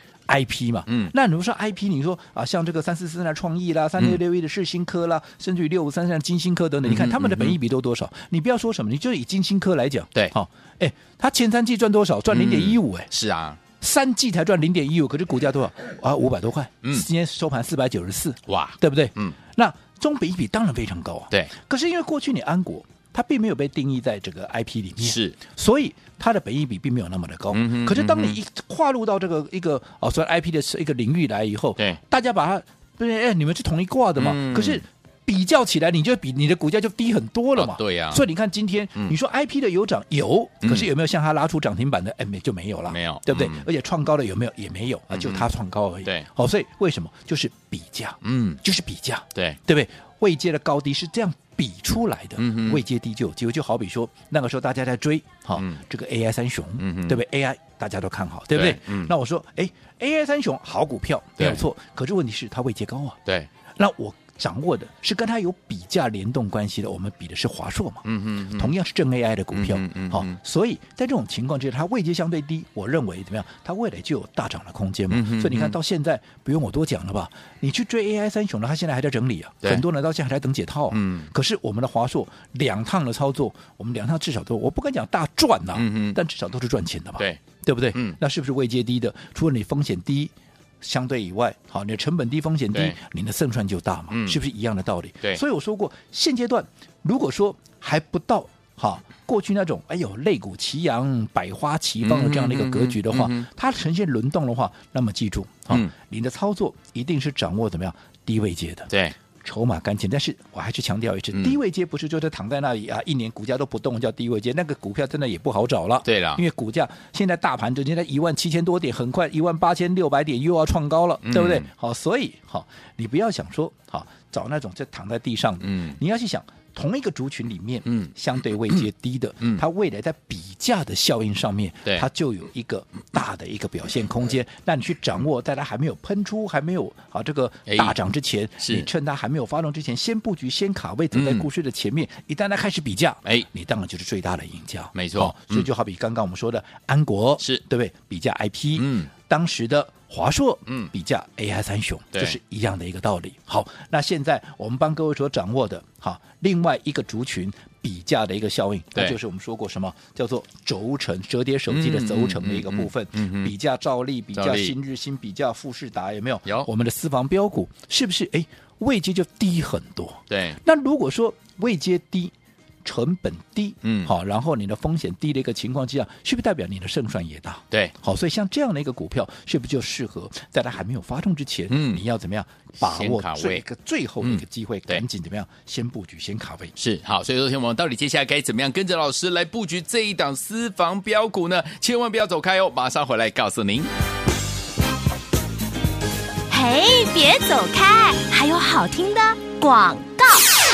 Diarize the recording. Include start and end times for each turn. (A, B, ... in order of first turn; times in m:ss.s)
0:00.3-0:13.1 A
0:00.9-0:01.1 B
0:06.8-0:07.6 B
0:12.3-0:13.6 B
0:13.8-1:03.2 A
0:18.5-0:19.4 B
0:25.0-0:25.4 B
0:27.5-0:28.4 B
0:34.2-0:34.8 B
0:37.6-0:38.2 B
0:40.6-0:40.9 B
0:42.9-0:43.7 B
0:45.1-0:45.5 B
0:48.2-0:48.6 B
0:52.4-0:52.8 B
0:56.8-0:57.2 B
0:58.5-0:59.1 B
1:03.8-1:48.9 A
1:08.0-1:08.7 B
1:09.5-1:10.4 B
1:15.1-1:15.8 B
1:20.9-1:21.3 B
1:25.7-1:26.2 B
1:27.9-1:28.2 B
1:34.1-1:34.4 B
1:42.0-1:43.5 B
1:48.9-1:49.2 B
1:49.4-2:52.3 A
1:56.0-1:56.4 B
2:01.2-2:01.7 B
2:05.6-2:06.0 B
2:07.9-2:08.1 B
2:17.7-2:18.0 B
2:18.6-2:18.9 B
2:21.1-2:21.5 B
2:25.0-2:25.7 B
2:28.8-2:29.1 B
2:41.7-2:43.5 B
2:44.4-2:44.8 B
2:50.3-2:50.6 B
2:52.8-3:06.8 A
2:53.8-2:54.1 B
3:01.7-3:02.0 B
3:02.8-3:03.6 B
3:04.2-3:05.0 B
3:06.8-3:13.9 B
3:16.5-3:20.5 C